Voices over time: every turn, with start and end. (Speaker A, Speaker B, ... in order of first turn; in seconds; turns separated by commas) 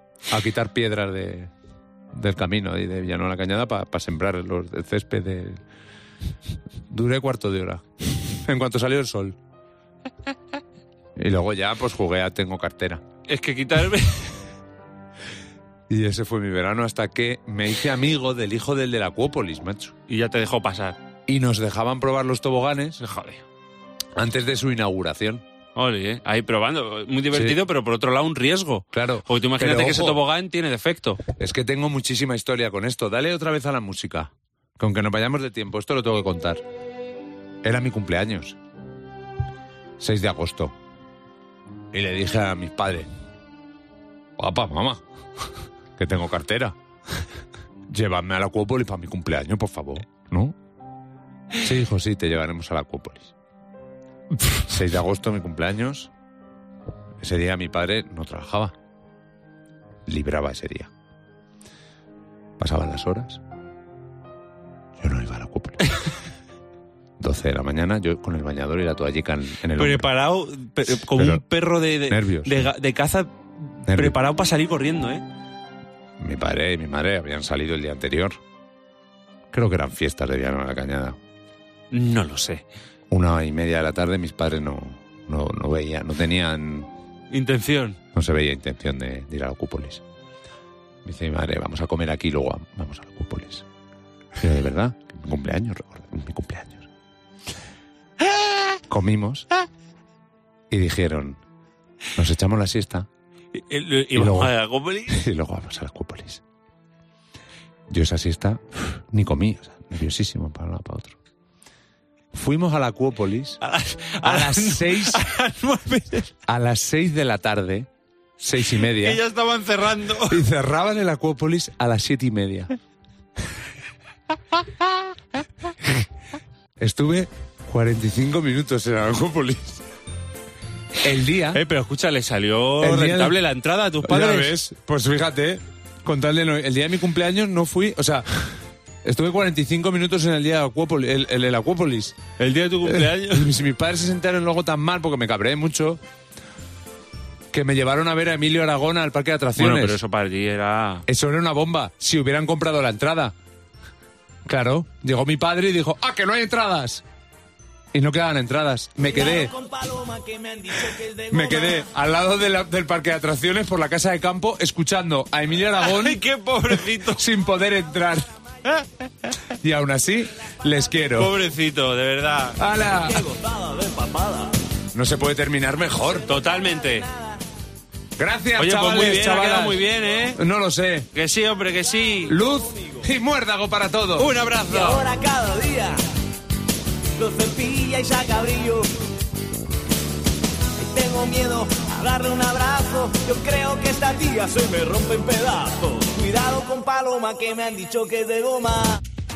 Speaker A: 0.3-1.5, Speaker A: 2.1-5.6, Speaker A: 6.9-9.4, Speaker A: 11.2-13.0, Speaker B: 13.3-14.4, Speaker A: 15.9-19.9, Speaker B: 20.1-21.0, Speaker A: 21.3-23.0, Speaker B: 23.0-23.4, Speaker A: 24.2-25.4, Speaker B: 25.8-31.2, Speaker A: 27.3-27.6, Speaker A: 28.9-30.2, Speaker A: 31.4-36.6, Speaker A: 37.6-38.6, Speaker A: 40.0-40.8, Speaker A: 41.9-43.1, Speaker A: 44.4-45.0, Speaker A: 46.0-46.8, Speaker A: 47.9-50.6, Speaker A: 51.6-53.3, Speaker A: 54.6-56.1, Speaker A: 57.2-58.8, Speaker A: 60.1-60.9, Speaker A: 62.6-63.4, Speaker A: 65.0-66.0, Speaker A: 67.2-70.1, Speaker B: 69.8-75.2, Speaker A: 70.9-71.4, Speaker A: 72.1-72.6, Speaker A: 73.9-74.2, Speaker A: 76.2-78.4, Speaker A: 79.5-81.2, Speaker B: 81.9-82.6, Speaker A: 83.1-86.9, Speaker B: 87.3-88.0, Speaker A: 88.1-90.0, Speaker A: 91.0-93.7, Speaker A: 94.4-96.9, Speaker A: 98.9-99.5, Speaker A: 100.7-101.4, Speaker A: 102.2-103.1, Speaker B: 103.5-105.2, Speaker A: 104.2-104.5, Speaker A: 105.1-106.4, Speaker A: 107.9-111.2, Speaker A: 112.3-113.6, Speaker B: 113.6-116.3, Speaker A: 114.2-115.3, Speaker A: 116.5-119.2, Speaker B: 118.9-120.4, Speaker A: 120.3-122.8, Speaker A: 126.8-129.9, Speaker A: 131.0-131.6, Speaker B: 131.5-134.5, Speaker A: 132.8-133.4, Speaker A: 134.0-138.5, Speaker A: 139.0-142.2, Speaker B: 142.4-143.5, Speaker A: 142.8-146.0, Speaker A: 147.5-150.0, Speaker B: 149.6-151.1, Speaker A: 151.1-153.3, Speaker A: 154.5-157.0, Speaker A: 157.9-159.5, Speaker C: 159.0-161.8, Speaker A: 161.3-166.2, Speaker B: 165.8-167.2, Speaker A: 166.8-168.3, Speaker A: 169.5-171.3, Speaker B: 171.2-172.6, Speaker A: 172.6-173.3, Speaker C: 172.9-174.6, Speaker A: 174.9-176.3, Speaker B: 176.3-177.1, Speaker C: 176.3-177.3, Speaker A: 178.2-179.8, Speaker B: 178.6-180.4, Speaker A: 180.3-181.1, Speaker B: 181.1-182.4, Speaker A: 182.3-184.3, Speaker B: 184.2-185.1, Speaker C: 184.7-186.0, Speaker C: 187.2-188.9, Speaker C: 190.8-199.0